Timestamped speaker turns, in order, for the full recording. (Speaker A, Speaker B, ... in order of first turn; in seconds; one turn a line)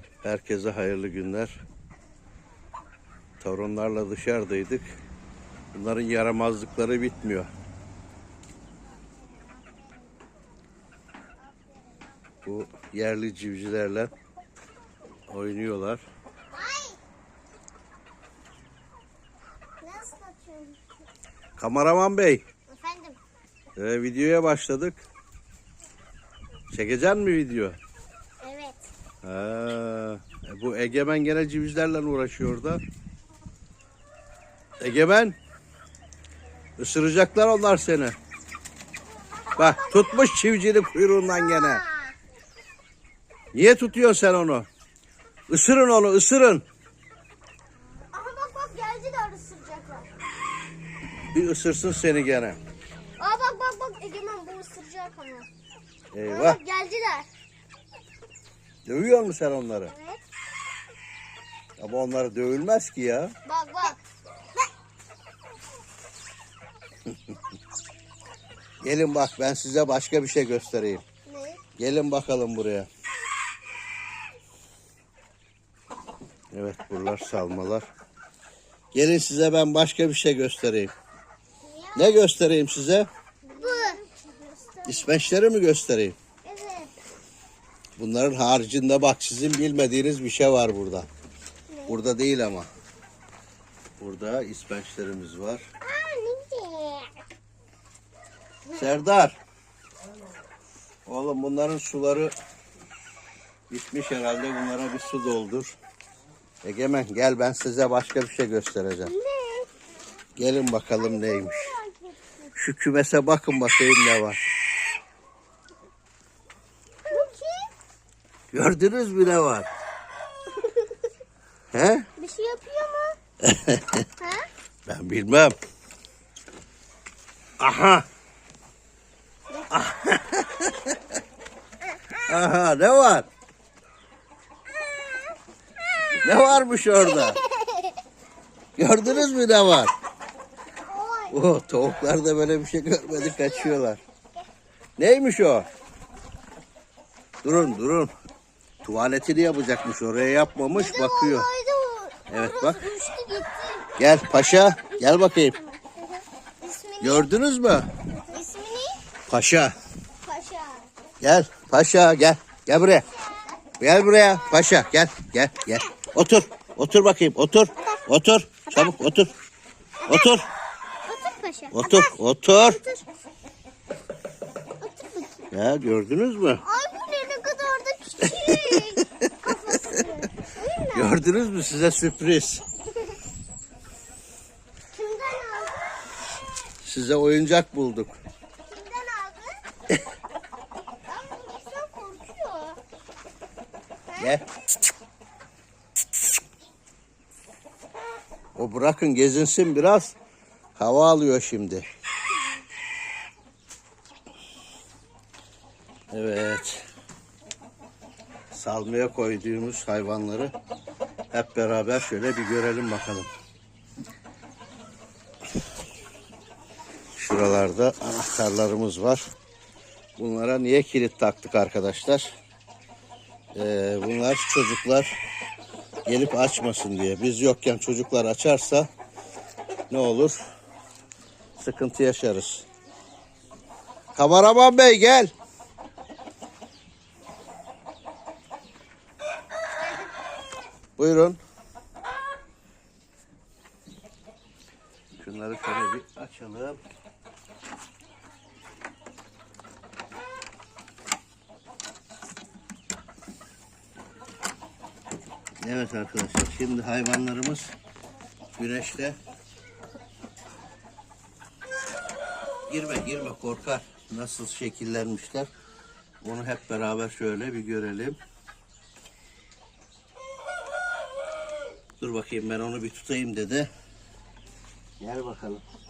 Speaker A: 0.2-1.6
Speaker A: 3.4-4.8
Speaker A: 5.7-7.5
Speaker A: 12.4-14.1
Speaker A: 15.3-16.0
Speaker B: 16.5-17.0
Speaker B: 19.8-20.8
Speaker A: 21.6-22.4
Speaker B: 22.7-23.2
Speaker A: 23.8-25.0
Speaker A: 26.7-27.8
Speaker B: 28.4-28.9
Speaker A: 29.2-32.8
Speaker A: 34.8-35.4
Speaker A: 36.8-38.1
Speaker B: 39.4-40.3
Speaker A: 39.6-41.8
Speaker B: 41.3-42.1
Speaker A: 43.5-44.7
Speaker A: 45.5-46.6
Speaker B: 48.1-50.1
Speaker A: 51.3-52.6
Speaker B: 53.2-55.5
Speaker A: 56.1-56.6
Speaker B: 56.3-57.3
Speaker A: 58.8-59.9
Speaker B: 59.9-60.2
Speaker A: 61.8-63.3
Speaker B: 63.4-64.0
Speaker A: 68.8-71.0
Speaker B: 71.2-71.6
Speaker A: 71.8-72.9
Speaker A: 76.5-77.9
Speaker A: 78.9-80.9
Speaker B: 81.6-82.2
Speaker A: 81.9-83.1
Speaker B: 83.5-85.2
Speaker A: 84.8-86.2
Speaker B: 86.4-86.9
Speaker A: 88.0-91.1
Speaker B: 91.7-92.0
Speaker A: 91.9-92.7
Speaker A: 94.0-95.6
Speaker B: 95.8-97.1
Speaker A: 98.7-99.4
Speaker A: 101.0-102.3
Speaker A: 103.7-105.8
Speaker A: 106.6-109.1
Speaker B: 109.0-109.7
Speaker A: 110.3-111.7
Speaker B: 111.0-112.5
Speaker A: 112.5-114.4
Speaker B: 117.1-117.7
Speaker A: 118.5-119.7
Speaker B: 120.5-120.9
Speaker A: 121.7-122.1
Speaker B: 122.2-123.2
Speaker A: 123.4-124.0
Speaker B: 124.2-124.5
Speaker A: 124.8-125.5
Speaker A: 127.6-128.0
Speaker A: 129.7-131.0
Speaker A: 132.2-133.3
Speaker A: 136.2-137.4
Speaker B: 137.0-137.9
Speaker A: 138.8-139.9
Speaker B: 140.9-141.4
Speaker A: 141.3-144.0
Speaker B: 143.1-143.8
Speaker A: 145.0-145.7
Speaker A: 147.4-148.1
Speaker A: 148.8-151.5
Speaker B: 150.7-153.9
Speaker A: 152.3-152.8
Speaker A: 154.0-155.5
Speaker B: 154.7-157.3
Speaker A: 157.0-157.9
Speaker B: 158.1-159.0
Speaker A: 159.3-159.7
Speaker B: 160.2-160.9
Speaker A: 161.2-163.1
Speaker A: 163.8-169.3
Speaker B: 170.0-170.4
Speaker A: 170.1-170.5
Speaker B: 171.1-173.0
Speaker A: 171.7-172.8
Speaker B: 174.8-175.5
Speaker A: 175.5-176.6
Speaker B: 176.6-181.2
Speaker A: 178.2-179.6
Speaker A: 180.9-182.6
Speaker B: 184.9-186.1
Speaker A: 186.8-188.2
Speaker B: 188.6-189.6
Speaker B: 191.1-192.8
Speaker B: 194.1-194.4
Speaker A: 194.2-194.4
Speaker A: 198.6-200.1
Speaker A: 200.8-201.9
Speaker A: 206.1-206.8
Speaker A: 208.5-210.5
Speaker A: 211.3-213.3
Speaker A: 217.2-219.2
Speaker A: 220.2-222.3
Speaker A: 223.5-225.1
Speaker A: 226.1-228.9
Speaker A: 229.9-230.4
Speaker A: 231.6-232.6
Speaker A: 234.1-235.3
Speaker B: 239.8-240.1
Speaker A: 241.0-241.4
Speaker A: 245.2-246.8
Speaker A: 255.6-257.7
Speaker A: 258.6-259.2
Speaker A: 262.7-265.5
Speaker A: 266.2-268.2
Speaker A: 272.0-273.7
Speaker A: 275.0-275.6